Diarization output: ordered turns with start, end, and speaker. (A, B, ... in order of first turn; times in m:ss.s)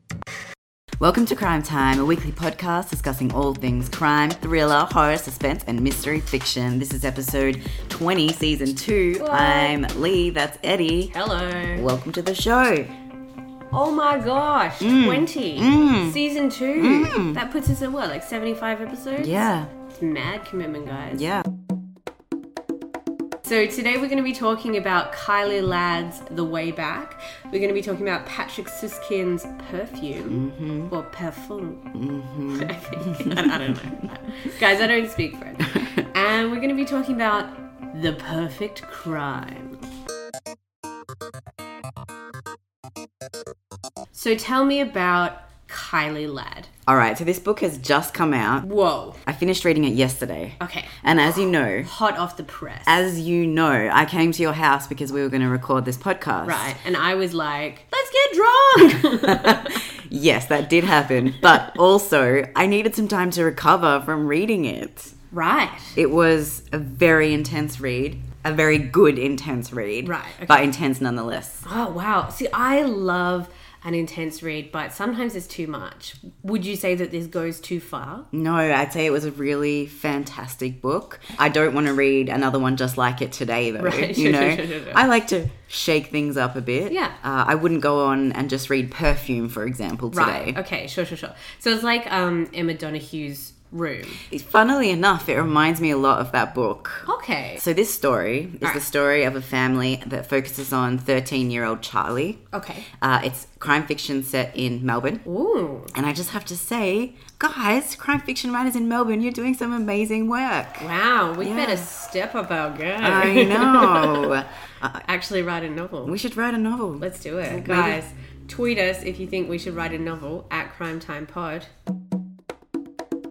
0:01.0-0:11.1 A
0:09.2-0:09.8 B
0:11.1-0:11.9 B
0:11.8-0:12.9 A
0:13.7-0:21.4 B
0:14.8-0:16.2 A
0:16.8-0:17.4 A
0:19.2-0:19.7 A
0:21.2-0:21.4 A
0:23.4-0:31.9 B
0:30.3-0:30.9 A
0:31.9-0:34.1 A
0:32.5-0:39.8 B
0:44.1-0:46.7 B
0:46.9-0:48.7 A
0:48.6-0:49.2 B
0:49.3-0:51.9 A
0:50.6-0:53.0 B
0:52.9-0:56.8 A
0:56.4-0:59.8 B
0:59.2-1:05.2 A
1:05.3-1:06.0 B
1:06.0-1:11.6 A
1:10.0-1:10.7 B
1:11.6-1:18.3 B
1:18.3-1:30.6 A
1:23.8-1:25.0 B
1:26.9-1:27.2 B
1:30.1-1:34.2 B
1:34.3-1:45.2 A
1:37.1-1:37.6 B
1:42.5-1:42.9 B
1:45.2-1:45.9 B
1:45.9-1:50.9 A
1:50.8-1:54.3 B
1:51.4-1:51.9 A
1:53.0-1:55.0 A
1:55.0-1:56.1 B
1:56.0-1:58.0 A
1:57.0-2:01.7 B